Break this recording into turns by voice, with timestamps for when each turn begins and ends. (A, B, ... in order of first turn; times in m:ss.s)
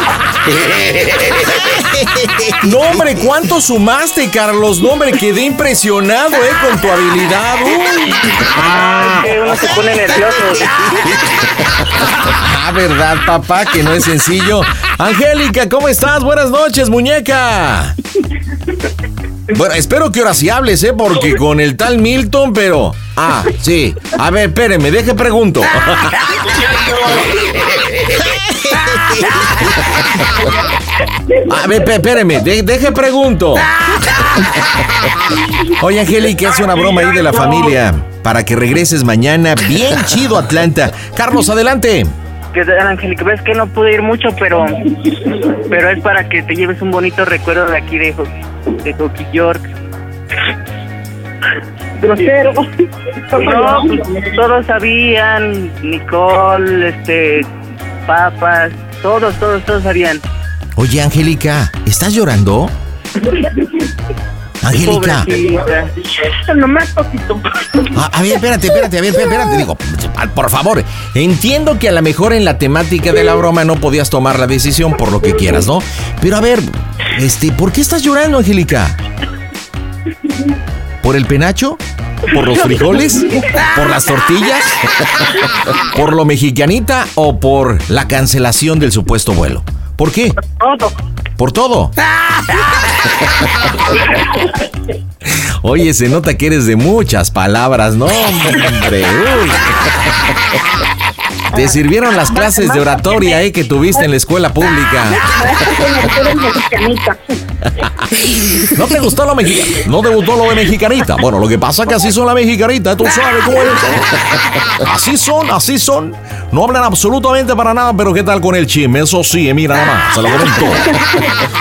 0:01.8-0:09.4 A
0:08.6-0:10.8 B
0:11.8-0:18.0 A
0:19.5-0:26.4 A
0:28.3-0:29.9 A
0:31.5-0:33.7 A
0:35.7-0:42.1 A
0:42.5-0:44.8 B
0:45.7-0:48.3 B
0:48.8-0:49.7 B
0:52.0-0:52.6 C
0:53.3-0:54.3 C
0:53.4-0:57.5 B
0:58.1-1:00.2 B
1:00.8-1:02.8 A
1:04.6-1:05.3 A
1:04.7-1:05.9 B
1:06.2-1:07.9 C
1:07.9-1:19.0 A
1:21.0-1:30.4 A
1:30.5-1:30.9 C
1:31.4-1:32.0 A
1:35.3-1:39.9 A
1:41.5-1:43.3 C
1:41.5-1:45.3 A
1:45.3-1:47.2 C
1:47.7-1:54.2 A
1:54.7-2:01.0 A